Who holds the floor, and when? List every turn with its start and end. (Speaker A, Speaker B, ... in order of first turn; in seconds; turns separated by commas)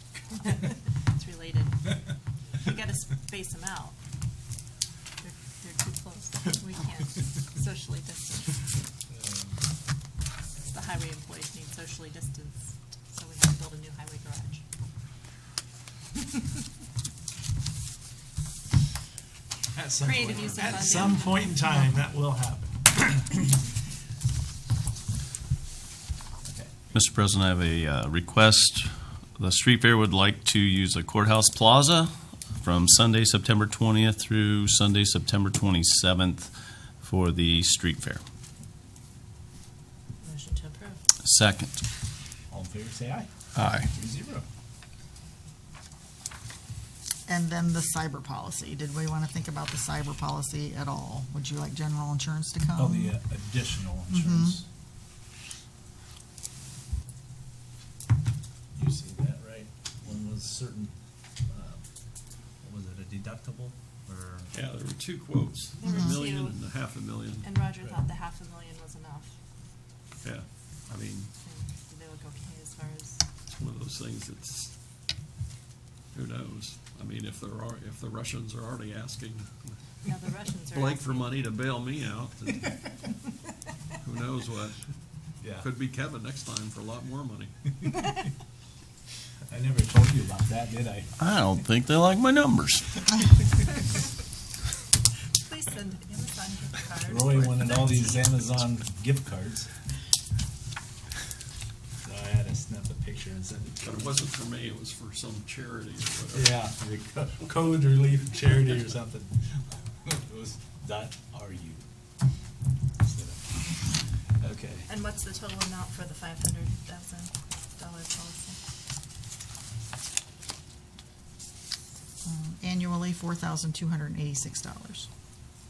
Speaker A: 0.4-4.0, Speaker A: 5.2-8.6, Speaker B: 9.1-9.6, Speaker A: 10.7-14.6, Speaker B: 19.8-23.6, Speaker A: 20.0-21.9, Speaker B: 26.4-26.9, Speaker C: 26.9-38.2, Speaker A: 40.2-41.0, Speaker C: 41.2-41.8, Speaker B: 42.5-43.3, Speaker C: 43.5-43.9, Speaker B: 43.9-44.5, Speaker D: 47.3-53.1, Speaker B: 52.8-54.6, Speaker D: 54.1-54.6, Speaker B: 58.7-60.9, Speaker B: 61.5-61.8, Speaker B: 62.6-64.5, Speaker E: 64.5-67.5, Speaker A: 65.8-66.6, Speaker D: 65.8-66.2, Speaker A: 67.4-69.3, Speaker E: 70.2-71.3, Speaker A: 71.4-73.2, Speaker E: 73.5-74.7, Speaker E: 76.1-79.8, Speaker A: 80.0-81.4, Speaker E: 80.7-82.8, Speaker E: 84.0-84.8, Speaker B: 85.4-85.7, Speaker E: 85.6-87.6, Speaker B: 89.5-91.2, Speaker C: 91.2-93.1, Speaker A: 95.4-98.7, Speaker B: 97.1-99.7, Speaker B: 102.0-104.3, Speaker E: 103.8-106.7, Speaker B: 106.3-111.8, Speaker B: 113.0-113.5, Speaker B: 114.4-114.9, Speaker A: 114.9-118.6, Speaker D: 122.2-125.1